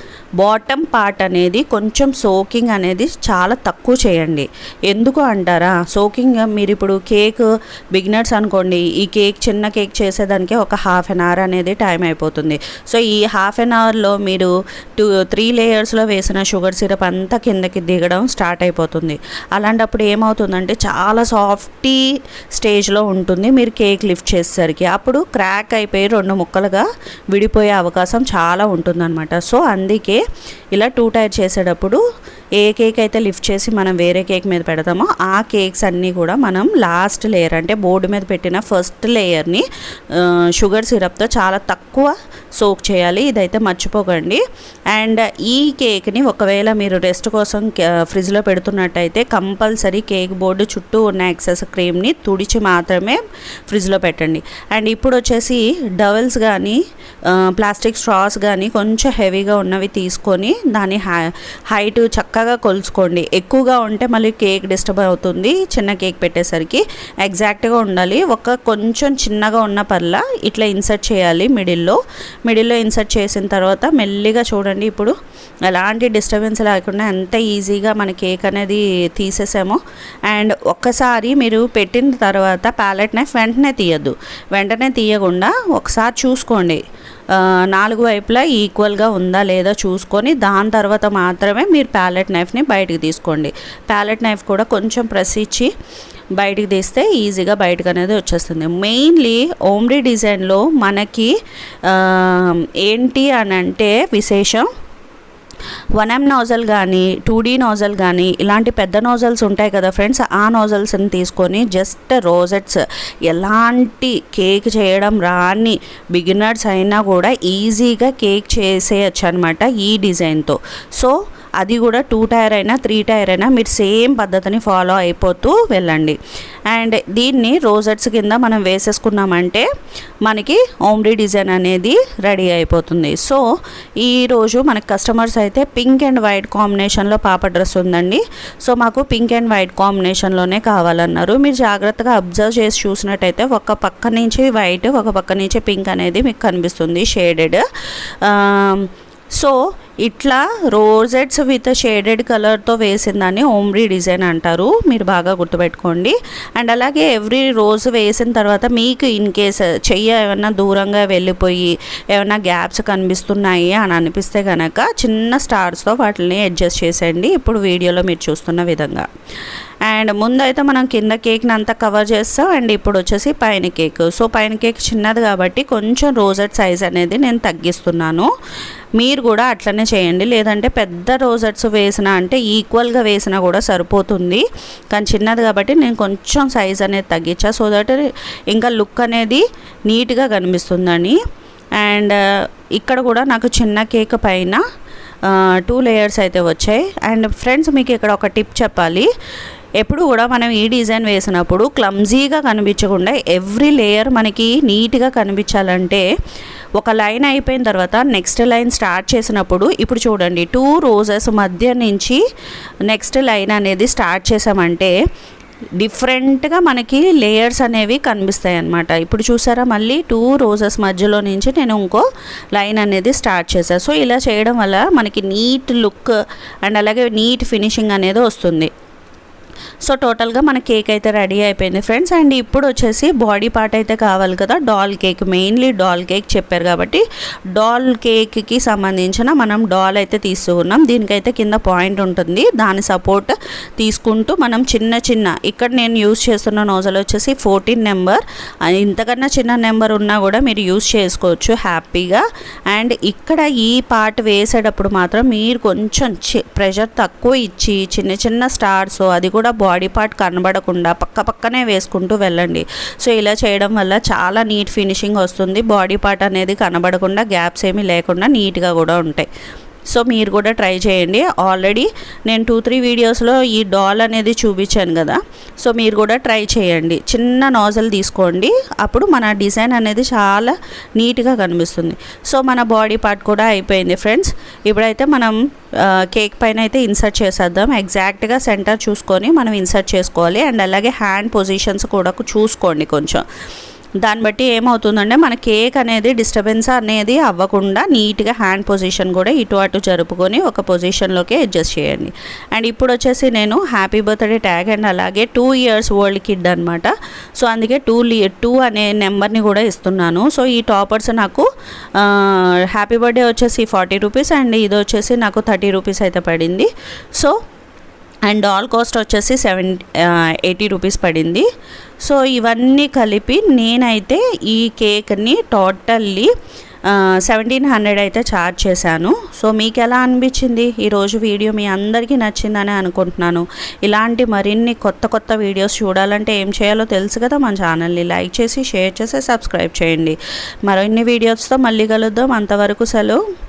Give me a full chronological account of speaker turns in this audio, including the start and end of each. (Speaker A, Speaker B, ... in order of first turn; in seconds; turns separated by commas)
Speaker A: 0.4-22.0, Speaker A: 22.5-30.2, Speaker A: 30.7-32.0, Speaker A: 32.6-44.4, Speaker A: 44.9-75.1, Speaker A: 75.7-95.7, Speaker A: 96.4-101.3, Speaker A: 101.8-104.7, Speaker A: 106.0-126.2, Speaker A: 126.7-129.7, Speaker A: 130.2-133.4, Speaker A: 134.0-147.6, Speaker A: 148.2-169.1, Speaker A: 169.8-178.3, Speaker A: 179.0-191.2, Speaker A: 191.8-192.2, Speaker A: 192.7-194.6, Speaker A: 195.2-199.1, Speaker A: 199.8-206.0, Speaker A: 206.8-212.2, Speaker A: 212.9-214.9, Speaker A: 215.8-228.7, Speaker A: 229.8-237.0, Speaker A: 237.5-269.3, Speaker A: 269.9-293.2, Speaker A: 294.0-317.3, Speaker A: 318.2-321.4, Speaker A: 322.0-326.3, Speaker A: 326.9-343.2